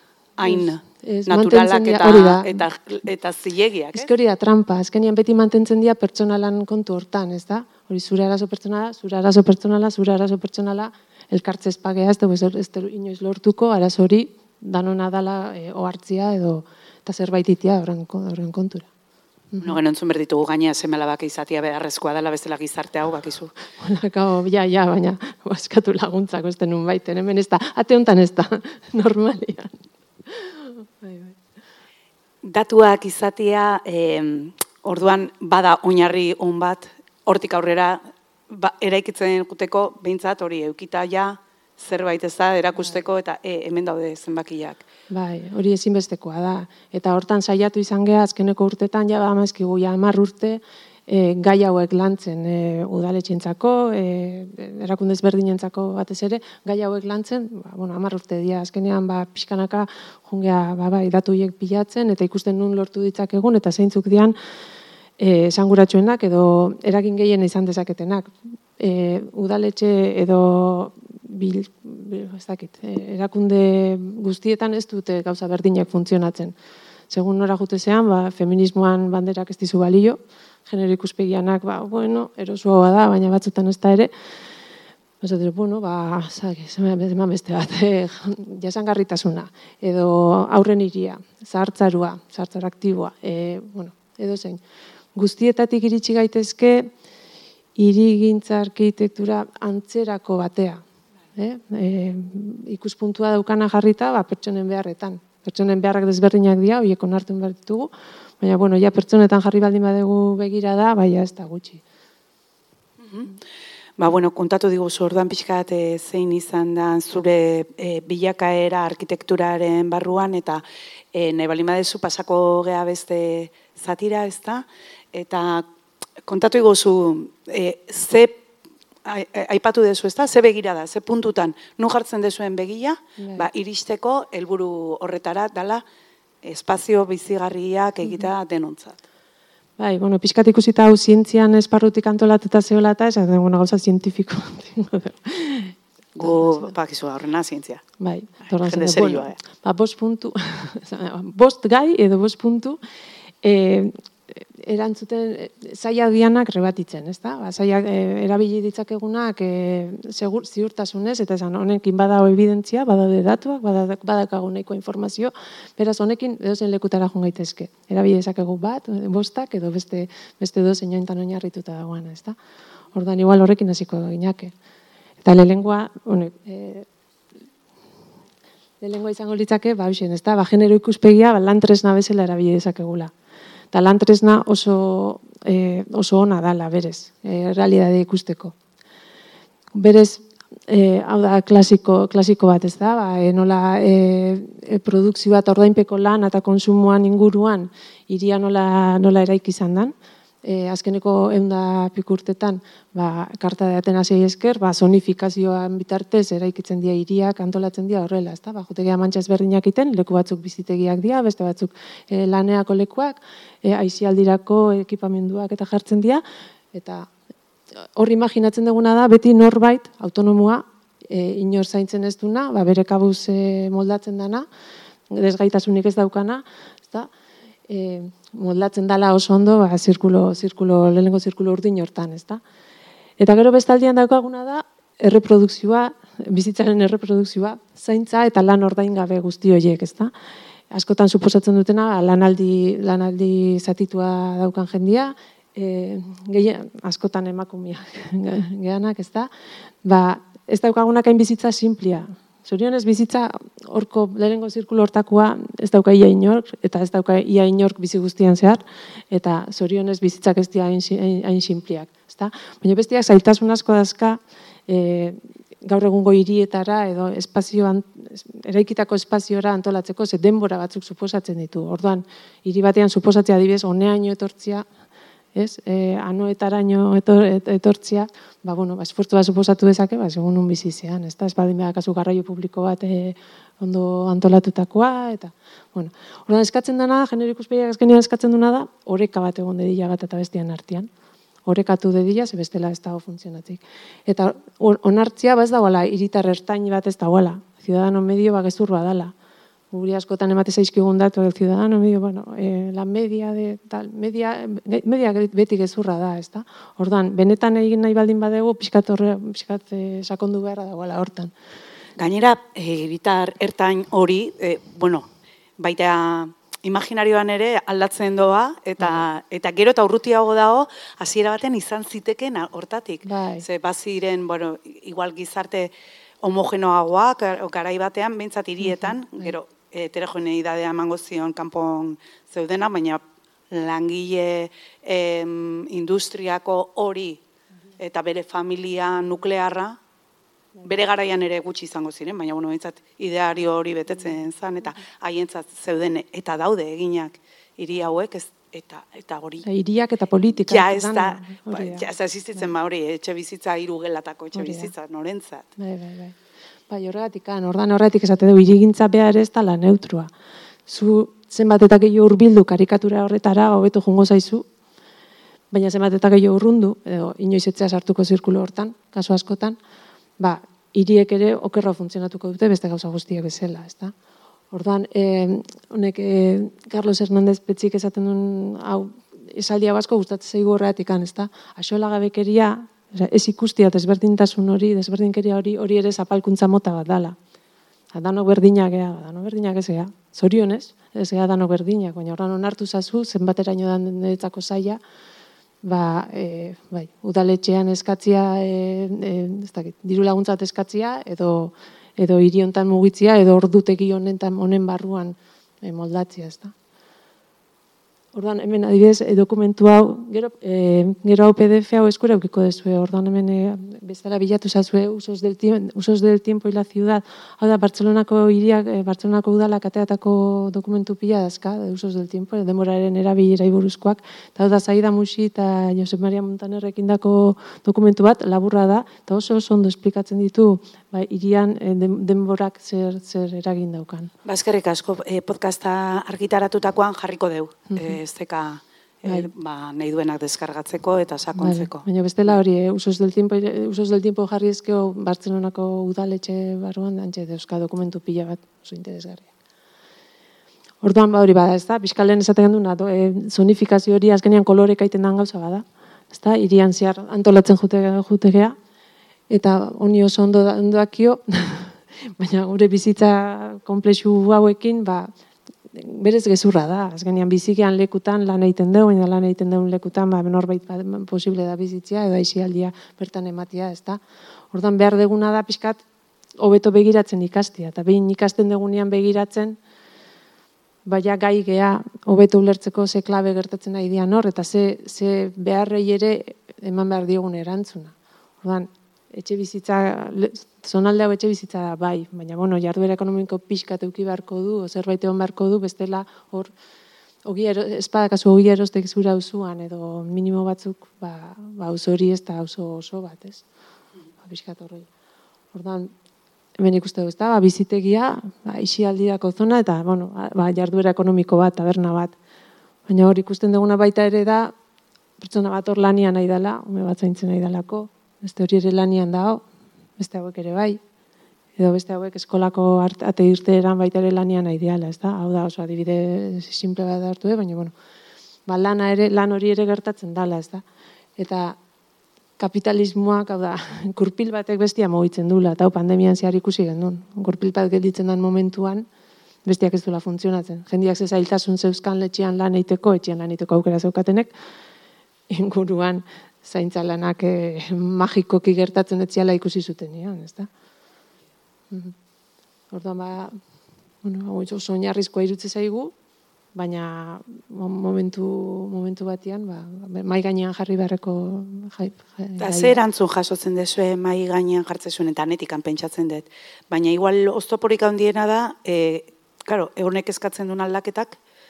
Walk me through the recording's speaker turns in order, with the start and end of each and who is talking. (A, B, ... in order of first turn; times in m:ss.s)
0:00.4-0:04.1 A
0:00.4-0:02.6 B
0:03.9-0:18.9 B
0:19.5-0:19.8 B
0:19.6-0:23.5 A
0:23.8-0:29.7 B
0:30.2-0:31.4 B
0:32.4-0:44.8 A
0:45.1-1:04.3 B
1:05.2-1:16.5 B
1:17.1-1:24.1 B
1:25.2-1:34.6 B
1:35.1-1:36.9 B
1:37.8-1:40.8 B
1:41.3-1:51.8 B
1:53.0-1:53.3 A
1:54.0-2:05.7 A
2:06.2-2:08.4 A
2:09.0-2:15.8 A
2:13.2-2:13.5 B
2:16.4-2:19.0 A
2:19.8-2:26.7 B
2:26.2-2:27.8 A
2:28.0-2:32.8 B
2:28.4-2:29.4 A
2:33.4-2:52.4 B
2:52.9-2:54.5 B
2:55.2-2:56.8 B
2:58.8-3:03.1 B
3:03.7-3:08.5 B
3:09.7-3:36.2 B
3:36.7-3:37.1 B
3:37.8-3:44.4 B
3:45.1-3:47.1 B
3:47.7-3:52.4 B
3:53.2-4:00.1 B
4:00.7-4:09.3 B
4:09.8-4:34.7 B
4:35.3-4:50.9 B
4:51.4-4:59.1 B
4:59.7-5:11.3 B
5:12.0-5:15.1 A
5:15.6-5:37.2 A
5:23.0-5:23.4 B
5:28.6-5:29.3 B
5:37.8-5:39.8 A
5:40.6-5:49.5 A
5:49.4-5:51.8 B
5:50.5-5:55.5 A
5:54.3-5:54.7 B
5:55.6-5:56.2 B
5:56.7-6:00.1 B
6:00.7-6:04.4 B
6:05.5-6:09.6 B
6:10.2-6:13.9 B
6:14.5-6:27.2 B
6:27.9-6:34.8 B
6:35.6-6:46.5 B
6:48.1-7:14.1 B
7:14.2-7:21.8 A
7:19.0-7:19.3 B
7:21.4-7:29.3 B
7:30.8-7:38.6 B
7:39.3-7:45.1 B
7:45.7-7:54.0 B
7:54.5-7:55.8 B
7:56.4-7:59.6 B
8:00.8-8:16.5 B
8:17.2-8:23.4 B
8:24.2-8:24.9 B
8:25.5-8:25.9 B
8:26.6-8:32.1 B
8:32.9-8:34.5 B
8:35.2-8:39.4 B
8:40.0-8:40.8 B
8:41.6-8:47.7 B
8:48.5-8:50.6 B
8:51.2-8:51.6 B
8:52.4-8:58.9 B
8:59.4-9:04.3 B
9:05.3-9:10.5 B
9:11.7-9:11.9 B
9:12.7-9:13.4 B
9:14.0-9:15.9 B
9:16.5-9:22.8 B
9:22.4-9:31.2 A